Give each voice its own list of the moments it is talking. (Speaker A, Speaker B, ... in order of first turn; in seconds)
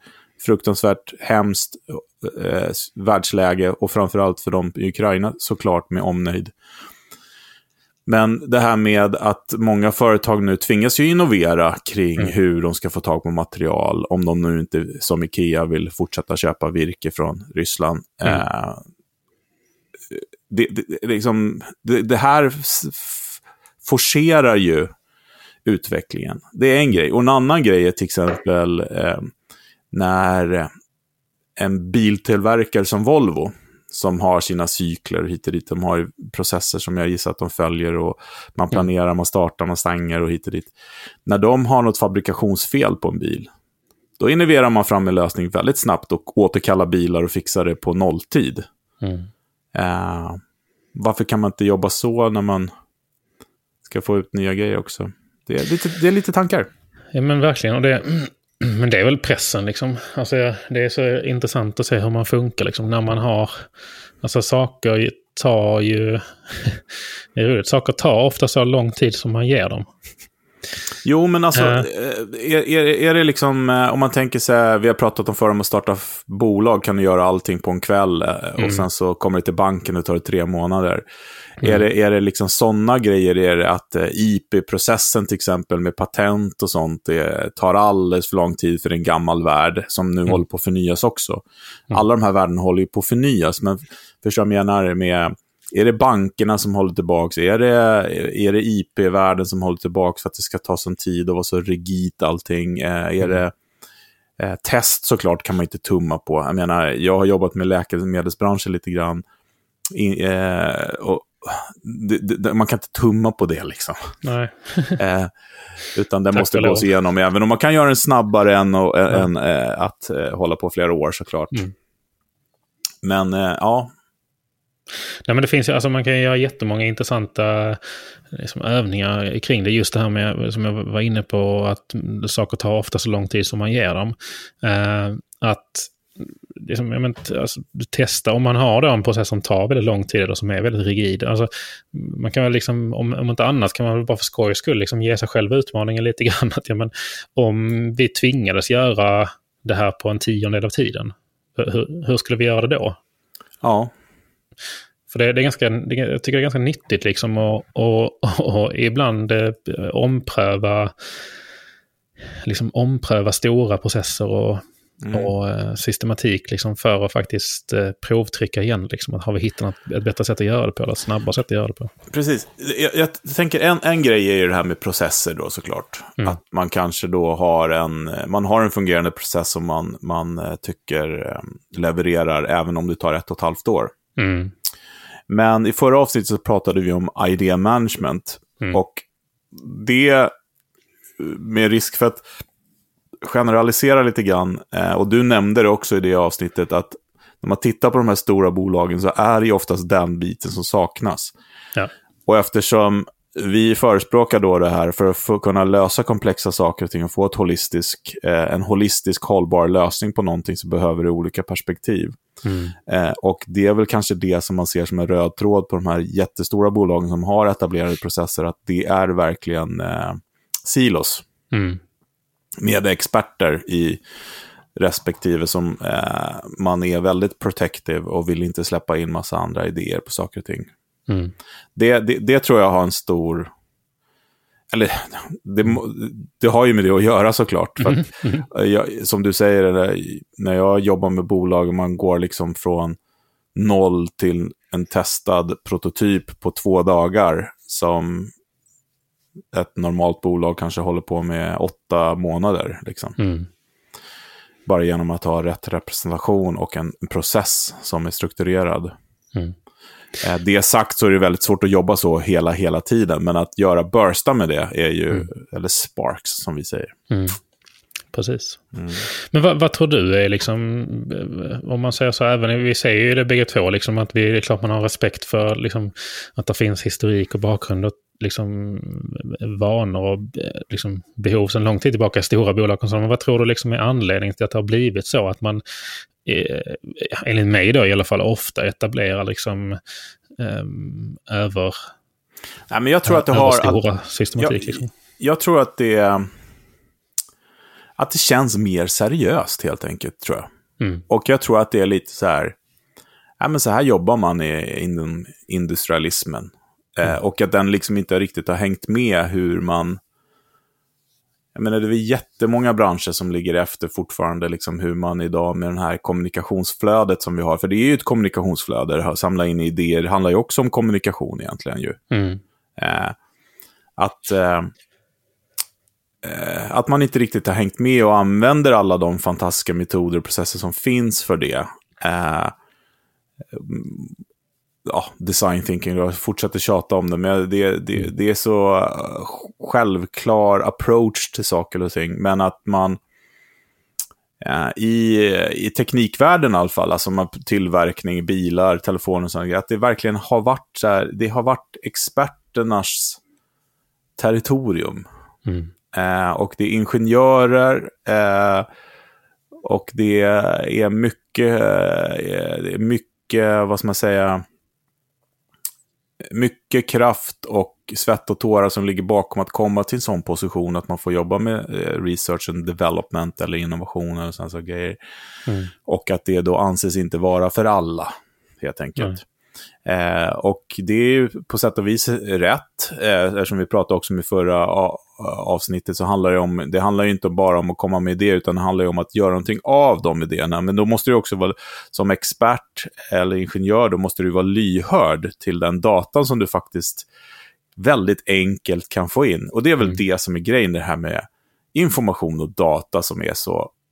Speaker A: 0.4-6.5, 8.1-18.8, 20.1-24.9, 25.6-29.3, 29.9-30.7, 31.6-40.7, 41.3-43.5, 44.2-48.7, 49.7-50.4, 51.0-52.7, 53.9-56.7, 71.0-81.0, 81.6-103.5, 104.4-109.2, 109.9-114.2, 115.0-115.3, 115.9-121.6, 123.0-123.9, 153.6-153.9, 165.0-165.3, 172.1-183.9, 185.3-190.3, 191.2-192.2, 193.2-201.3, 202.3-212.2, 212.9-221.2, 222.6-224.0, 224.8-230.7, 231.8-233.5, 234.7-243.0, 243.6-248.3, 249.5-253.2, 254.7-258.9, 260.2-266.9, 268.7-269.1, 292.7-293.8, 294.4-296.3, 298.0-300.5, 301.1-302.6, 303.4-310.0, 311.6-322.0, 322.8-323.1, 324.0-324.7, 326.2-332.5, 333.5-334.2, 334.9-343.0, 344.4-353.2, 354.2-355.1, 355.9-358.7, 359.6-364.4, 366.2-375.0, 375.9-379.2, 379.9-397.1, 397.8-403.7
Speaker B: 49.0-49.3, 57.1-63.6, 64.2-69.9, 71.5-71.9, 78.6-78.8, 114.2-115.0, 116.3-116.9, 125.3-153.0, 155.1-160.9, 162.4-171.9, 184.2-184.5, 212.4-212.8, 221.5-221.8, 231.1-231.3, 237.8-238.5, 253.2-253.5, 267.1-267.4, 268.1-285.6, 286.2-289.8, 290.4-291.9, 293.1-294.9, 322.1-322.4, 355.5-355.7, 375.5-375.7